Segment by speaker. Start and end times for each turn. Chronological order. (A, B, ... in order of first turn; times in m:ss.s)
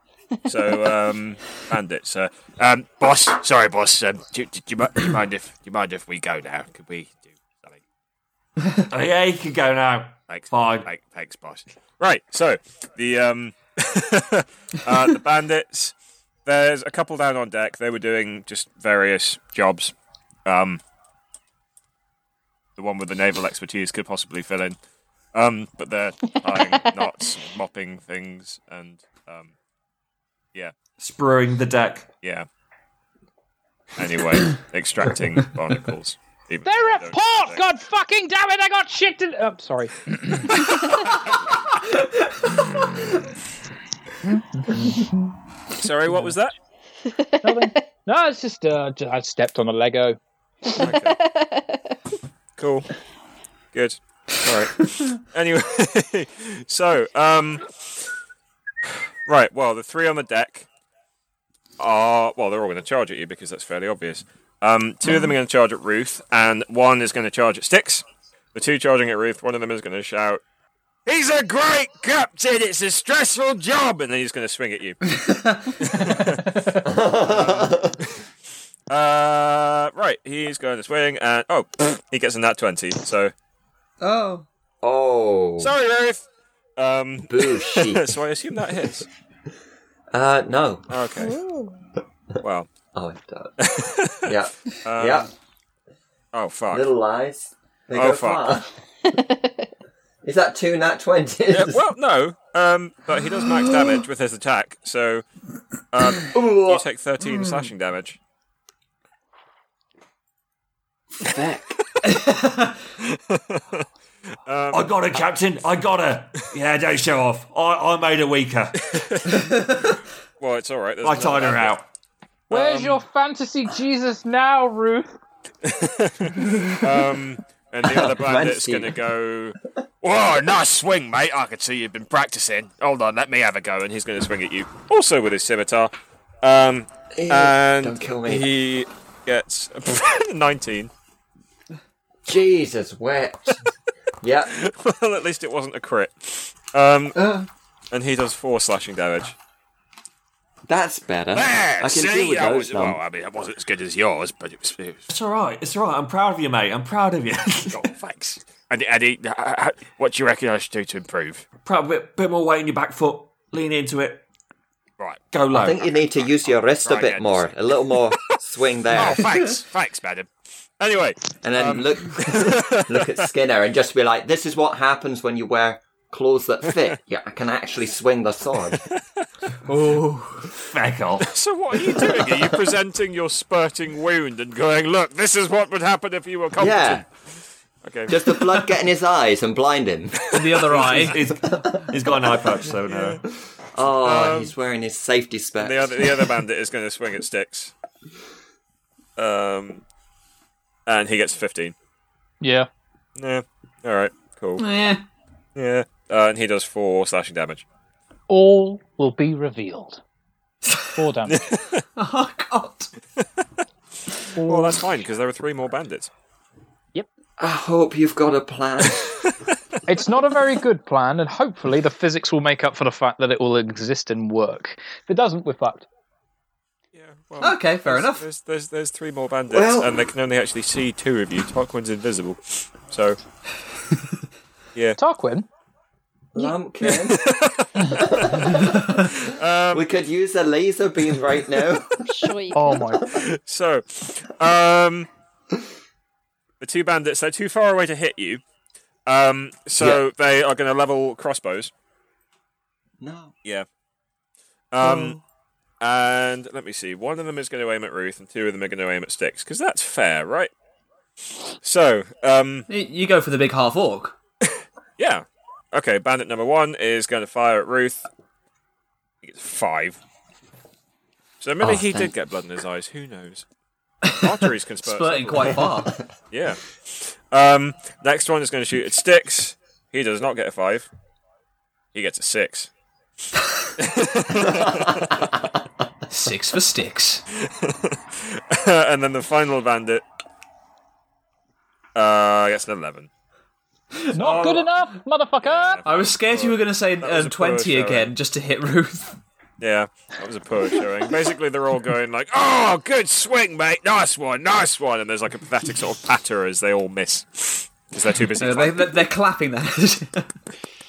0:00.5-0:07.8 A
0:08.9-0:10.9 B
0:10.3-0:20.8 A
0:22.8-0:24.8 A
0:25.3-0:29.5 A
0:26.2-0:27.1 C
0:31.0-0:32.1 B
0:34.0-0:37.6 A
0:36.6-0:40.8 D
0:44.2-0:45.2 D
0:45.8-0:46.5 A
0:47.0-0:47.8 C
0:47.4-0:50.2 D
0:50.7-0:52.0 C
0:50.8-0:51.2 A
0:52.6-0:52.9 A
0:53.7-0:58.1 A
0:59.2-1:00.7 A
1:01.8-1:10.4 A
1:11.1-1:15.0 A
1:15.1-1:15.7 E
1:15.8-1:17.8 A
1:16.8-1:18.0 F
1:18.9-1:23.3 A
1:24.0-1:24.5 E
1:24.8-1:25.7 F
1:25.6-1:26.2 A
1:26.8-1:29.1 A
1:27.3-1:28.2 F
1:30.1-1:30.9 F
1:30.9-1:31.4 A
1:31.2-1:31.7 C
1:32.4-1:32.7 A
1:32.9-1:33.6 F
1:33.6-1:35.3 A
1:34.2-1:35.3 F
1:36.3-1:36.9 A
1:36.7-1:38.7 F
1:38.0-1:38.5 A
1:39.2-1:39.5 C
1:40.2-1:41.8 F
1:41.5-1:45.2 A
1:45.9-1:48.2 A
1:46.3-1:46.9 F
1:51.2-1:51.8 F
1:52.0-1:52.8 E
1:53.1-1:53.8 A
1:54.5-1:54.9 A
1:54.7-1:58.9 B
1:58.8-1:59.4 A
2:00.4-2:01.7 A
2:01.0-2:01.8 B
2:02.5-2:03.0 A
2:02.5-2:05.1 D
2:05.6-2:20.9 A
2:07.8-2:09.0 F
2:17.2-2:18.5 F
2:22.2-2:23.6 F
2:24.2-2:24.5 F
2:24.5-2:27.2 A
2:27.9-2:29.4 A
2:30.7-2:33.0 F
2:31.3-2:35.0 A
2:35.1-2:37.9 B
2:37.7-2:41.4 A
2:41.6-2:44.2 B
2:45.0-2:45.2 A
2:45.3-2:45.8 B
2:45.5-2:49.5 F
2:46.5-2:47.6 A
2:48.9-2:53.3 A
2:51.4-2:58.8 F
2:58.7-2:59.3 A
2:59.7-3:00.5 E
3:00.7-3:01.3 B
3:01.2-3:07.1 A
3:06.6-3:07.0 F
3:07.8-3:08.6 A
3:08.1-3:10.3 F
3:10.3-3:11.1 A
3:10.3-3:11.2 E
3:10.7-3:13.2 B
3:11.5-3:11.9 F
3:12.9-3:13.2 A
3:13.7-3:16.4 F
3:14.0-3:14.5 A
3:15.6-3:17.7 A
3:19.2-3:19.8 A
3:20.9-3:21.7 A
3:22.4-3:22.7 D
3:23.2-3:24.6 A
3:24.6-3:25.0 E
3:25.6-3:27.6 A
3:28.3-3:30.0 D
3:30.9-3:31.4 D
3:31.3-3:31.8 A
3:32.0-3:32.9 E
3:34.4-3:34.8 D
3:34.4-3:36.1 A
3:37.4-3:39.2 F
3:39.2-3:39.5 A
3:39.9-3:45.9 D
3:46.9-3:53.2 A
3:47.4-3:48.2 E
3:49.5-3:50.1 F
3:55.0-3:55.5 D
3:56.3-3:57.3 F
3:56.8-3:59.9 A
3:57.9-3:59.1 F
3:59.7-4:02.3 F
4:02.0-4:02.8 C
4:02.5-4:03.0 D
4:03.1-4:05.1 A
4:06.6-4:08.4 A
4:09.1-4:11.7 A
4:09.8-4:10.0 F
4:13.0-4:13.3 F
4:14.7-4:15.2 A
4:14.8-4:15.1 E
4:15.8-4:20.5 A
4:21.6-4:22.7 A
4:22.7-4:24.2 E
4:24.5-4:28.1 A
4:29.2-4:30.0 A
4:31.4-4:33.4 A
4:31.6-4:32.1 F
4:34.0-4:36.0 E
4:34.1-4:40.9 A
4:41.9-4:42.7 A
4:43.8-4:45.2 A
4:46.1-4:47.2 E
4:47.3-4:50.0 A
4:52.0-4:53.1 A
4:54.0-4:54.7 E
4:54.1-4:55.8 D
4:55.4-4:58.1 A
4:55.8-4:59.2 E
4:59.6-5:09.1 A
5:08.4-5:10.3 E